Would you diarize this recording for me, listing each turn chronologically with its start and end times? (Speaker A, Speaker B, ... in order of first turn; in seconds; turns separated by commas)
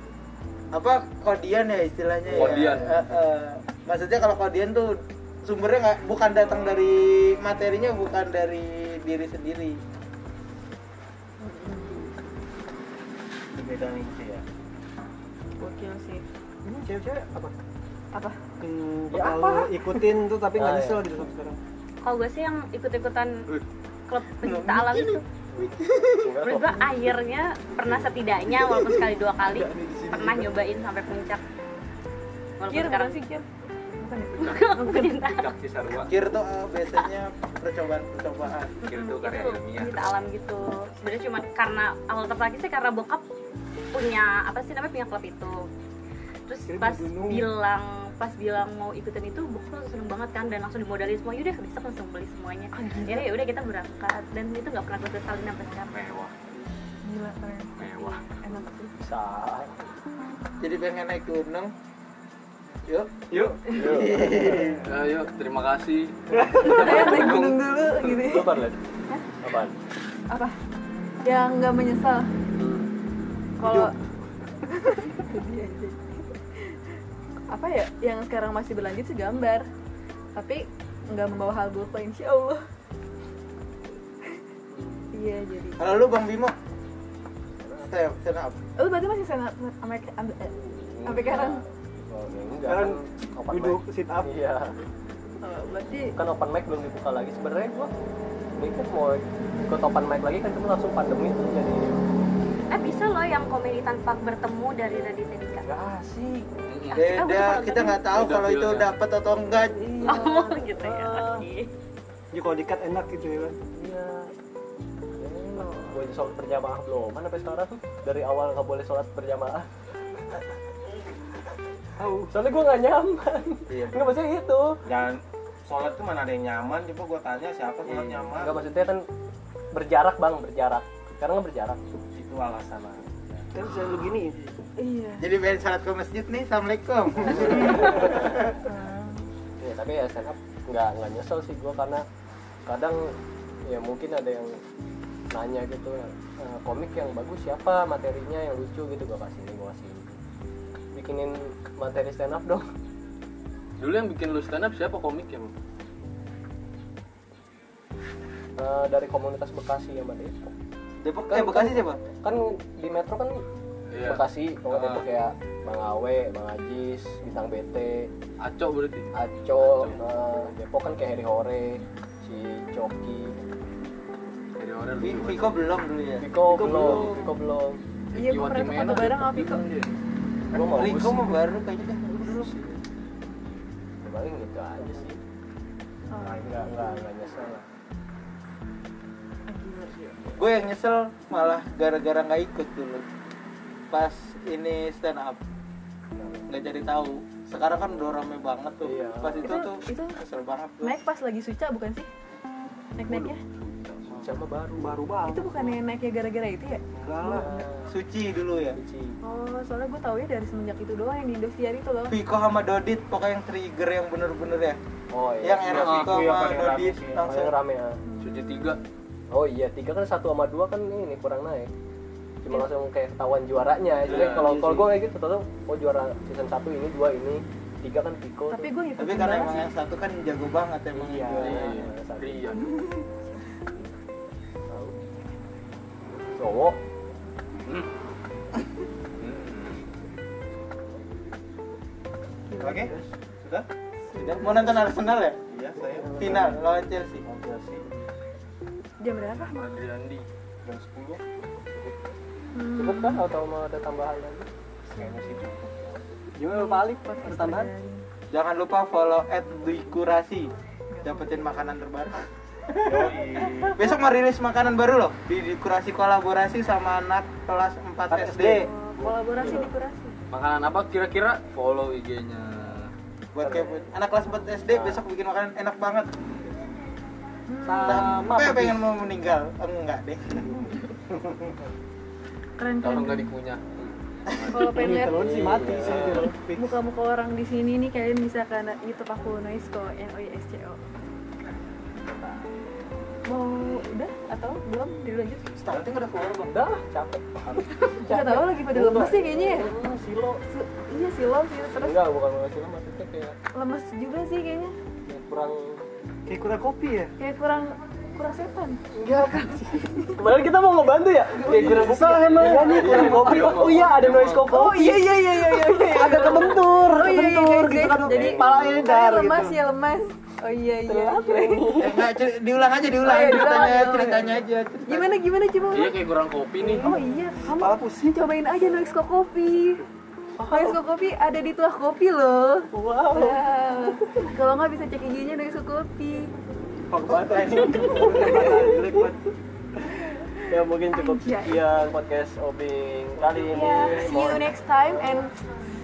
Speaker A: 0.7-9.8, Speaker B: 2.3-3.1, Speaker C: 11.4-12.1, Speaker D: 13.5-14.4, Speaker C: 15.6-16.2, Speaker E: 16.6-17.5, Speaker C: 18.1-18.4, Speaker E: 18.6-21.6, Speaker C: 19.1-20.1, Speaker F: 20.5-21.1, Speaker G: 22.0-23.5, Speaker G: 24.1-25.2, Speaker A: 24.4-24.8, Speaker C: 24.5-25.2, Speaker F: 25.5-26.8, Speaker C: 25.8-26.3, Speaker G: 26.4-31.4, Speaker H: 29.5-29.9, Speaker G: 32.6-33.2, Speaker C: 32.7-33.5, Speaker C: 34.0-35.2, Speaker G: 34.4-35.5, Speaker H: 35.2-36.2, Speaker A: 36.1-38.8, Speaker G: 38.8-43.2, Speaker H: 38.8-40.2, Speaker G: 43.9-45.7, Speaker G: 46.5-55.9, Speaker E: 46.7-47.5, Speaker C: 52.7-53.4, Speaker H: 55.9-56.3, Speaker C: 57.0-59.0, Speaker H: 57.8-58.2, Speaker F: 59.0-59.8, Speaker A: 60.6-61.7, Speaker A: 62.9-64.8, Speaker F: 63.3-64.6, Speaker C: 63.6-64.0, Speaker B: 64.8-67.6, Speaker E: 66.3-66.6, Speaker C: 66.6-69.3, Speaker F: 67.0-67.5, Speaker F: 68.0-68.8, Speaker F: 69.4-69.8, Speaker C: 71.2-72.3, Speaker F: 72.5-72.9, Speaker C: 73.6-74.0, Speaker E: 73.6-73.9, Speaker C: 74.7-76.8, Speaker C: 77.5-79.6, Speaker C: 80.4-82.6, Speaker F: 84.7-85.0, Speaker C: 85.1-85.9, Speaker A: 85.8-86.5, Speaker F: 87.6-87.9, Speaker A: 87.9-88.6, Speaker C: 88.8-90.5, Speaker F: 90.5-94.7, Speaker C: 91.0-91.6, Speaker E: 92.6-94.3, Speaker C: 95.4-96.1, Speaker F: 96.1-97.9, Speaker F: 98.6-102.0, Speaker G: 102.7-105.7, Speaker F: 105.6-106.5, Speaker B: 106.7-107.1, Speaker G: 106.9-108.0, Speaker A: 107.0-110.1, Speaker B: 108.0-108.9, Speaker C: 109.7-111.5, Speaker G: 110.0-111.7, Speaker E: 112.3-113.6, Speaker F: 113.7-114.3, Speaker F: 115.2-119.7, Speaker C: 115.5-116.1, Speaker E: 122.0-122.4, Speaker F: 122.3-124.8, Speaker D: 123.7-124.1, Speaker D: 124.8-128.6, Speaker F: 127.9-129.1, Speaker F: 129.7-131.8, Speaker D: 132.1-133.8, Speaker E: 133.5-134.4, Speaker C: 134.8-135.3, Speaker A: 135.2-138.5, Speaker F: 137.2-138.4, Speaker C: 138.5-139.3, Speaker F: 139.6-142.1, Speaker F: 142.7-144.6, Speaker F: 145.3-150.1, Speaker F: 150.9-152.7, Speaker B: 153.8-155.5, Speaker F: 158.6-160.5, Speaker A: 161.0-162.0, Speaker F: 161.3-163.4, Speaker B: 163.9-165.1, Speaker F: 164.0-168.1, Speaker B: 168.4-170.0, Speaker F: 169.1-173.4, Speaker B: 174.6-175.7, Speaker A: 175.0-176.2, Speaker F: 176.2-177.8, Speaker E: 176.4-177.2, Speaker B: 176.6-177.1, Speaker B: 178.1-179.9, Speaker C: 178.1-179.6, Speaker F: 180.5-181.2, Speaker A: 180.5-182.5, Speaker F: 184.0-185.2, Speaker C: 186.1-187.3, Speaker F: 186.2-187.6, Speaker C: 189.5-190.3, Speaker A: 190.4-193.1, Speaker A: 193.9-195.4, Speaker A: 196.5-201.0, Speaker F: 198.8-199.6, Speaker C: 199.4-200.2, Speaker C: 200.8-202.1, Speaker C: 203.0-203.4, Speaker F: 204.1-205.0, Speaker E: 204.8-205.7, Speaker C: 205.2-207.6, Speaker E: 207.0-207.5, Speaker F: 207.2-207.9, Speaker A: 207.9-208.8, Speaker F: 208.8-209.2, Speaker C: 209.2-212.2, Speaker A: 212.1-214.8, Speaker F: 215.1-215.9, Speaker A: 215.4-217.5, Speaker D: 215.7-217.3, Speaker B: 215.7-216.1, Speaker F: 217.2-218.0, Speaker C: 218.1-218.4, Speaker B: 218.2-218.8, Speaker F: 219.3-221.7, Speaker F: 222.4-228.7, Speaker B: 224.1-224.7, Speaker E: 224.1-225.0, Speaker C: 228.5-229.7, Speaker A: 229.0-231.8, Speaker F: 230.9-232.5, Speaker B: 231.4-232.8, Speaker C: 232.5-233.9, Speaker F: 234.7-235.0, Speaker F: 236.3-236.8, Speaker B: 239.2-239.8, Speaker C: 242.5-242.9, Speaker D: 242.6-243.7, Speaker C: 244.1-244.6, Speaker A: 244.4-245.4, Speaker D: 245.5-246.6, Speaker F: 245.9-246.6, Speaker A: 246.2-247.2, Speaker D: 247.2-247.8, Speaker C: 249.0-249.7, Speaker B: 249.3-250.2, Speaker D: 250.7-251.2, Speaker C: 252.5-253.3, Speaker F: 252.8-254.5, Speaker C: 254.9-255.4, Speaker D: 254.9-256.0, Speaker E: 256.4-257.7, Speaker C: 256.5-258.0, Speaker A: 258.3-260.5, Speaker C: 260.9-261.6, Speaker A: 261.0-263.2, Speaker D: 262.8-263.9, Speaker A: 263.7-268.7, Speaker E: 268.1-268.7, Speaker C: 268.6-270.2, Speaker F: 269.4-269.7, Speaker B: 270.3-272.9, Speaker A: 273.3-276.1, Speaker F: 273.4-273.8, Speaker F: 274.7-275.0, Speaker C: 277.5-278.3, Speaker F: 277.6-278.8, Speaker E: 277.8-278.7, Speaker A: 277.9-280.4, Speaker C: 282.6-283.3, Speaker B: 282.8-283.6, Speaker B: 284.3-284.8, Speaker C: 284.5-285.3, Speaker E: 284.6-286.7, Speaker F: 285.1-286.3, Speaker B: 285.9-286.2, Speaker C: 286.3-290.8, Speaker F: 292.0-292.4, Speaker C: 293.3-295.6, Speaker A: 295.6-296.5, Speaker F: 296.5-300.4, Speaker C: 297.9-299.7, Speaker C: 300.5-302.0, Speaker F: 301.7-303.4, Speaker C: 303.5-304.7, Speaker F: 305.1-305.8, Speaker E: 306.3-307.1, Speaker C: 307.2-310.2, Speaker F: 310.1-315.1, Speaker E: 311.5-313.8, Speaker B: 311.5-314.5, Speaker C: 314.4-322.1, Speaker E: 315.3-319.6, Speaker F: 318.0-318.9, Speaker F: 320.9-322.0, Speaker A: 321.8-325.1, Speaker C: 323.0-326.0, Speaker B: 325.7-327.0, Speaker C: 326.6-329.8, Speaker E: 327.4-328.2, Speaker F: 330.4-330.8, Speaker C: 330.5-336.3, Speaker F: 332.7-333.4, Speaker E: 336.9-339.2, Speaker A: 337.1-338.2, Speaker F: 337.3-339.1, Speaker C: 337.9-338.5, Speaker F: 340.5-345.1, Speaker C: 340.9-341.8, Speaker A: 343.4-343.6, Speaker C: 343.5-345.4